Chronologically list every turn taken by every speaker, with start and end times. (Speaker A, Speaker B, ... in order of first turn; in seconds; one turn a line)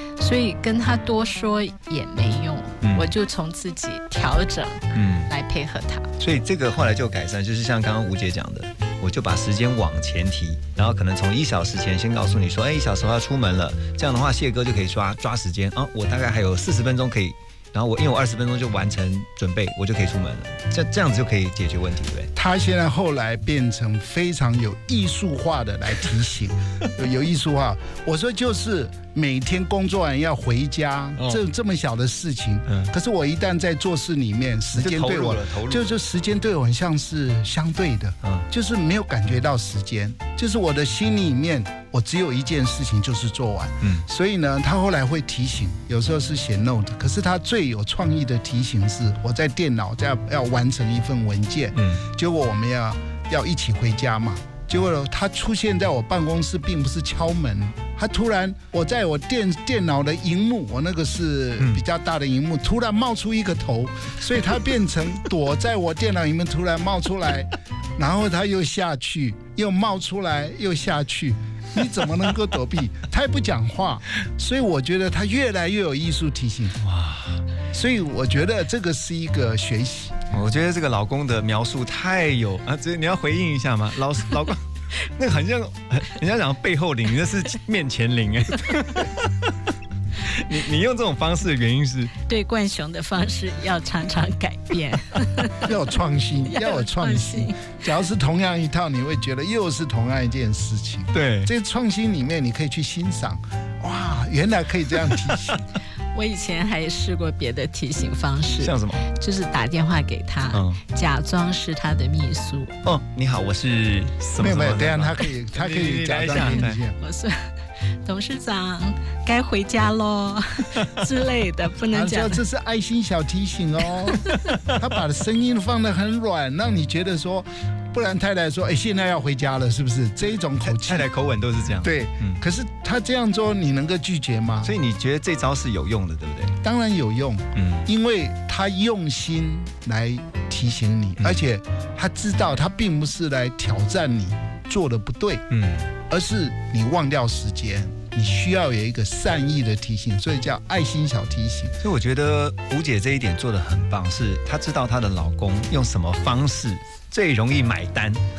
Speaker A: 0.2-6.1
Speaker B: 2.8-3.1
Speaker B: 4.9-5.3
Speaker B: 6.2-22.3
Speaker C: 22.4-76.8
Speaker B: 34.7-35.9
Speaker B: 51.8-52.0
Speaker B: 76.8-77.4
Speaker C: 77.7-80.2
Speaker B: 80.3-84.6
Speaker B: 85.2-89.5
Speaker B: 90.3-92.1
Speaker A: 92.3-95.6
Speaker C: 95.6-105.6
Speaker A: 96.5-97.7
Speaker B: 101.1-101.5
Speaker A: 106.1-112.7
Speaker B: 108.6-109.0
Speaker B: 110.5-110.8
Speaker B: 112.8-116.8
Speaker C: 114.4-117.0
Speaker A: 116.4-117.4
Speaker A: 118.0-122.4
Speaker C: 121.9-131.1
Speaker B: 130.6-132.4
Speaker C: 131.8-134.7
Speaker B: 134.6-136.5
Speaker C: 136.6-145.5
Speaker B: 137.6-137.9
Speaker B: 145.5-145.9
Speaker C: 146.1-151.7
Speaker B: 151.8-158.2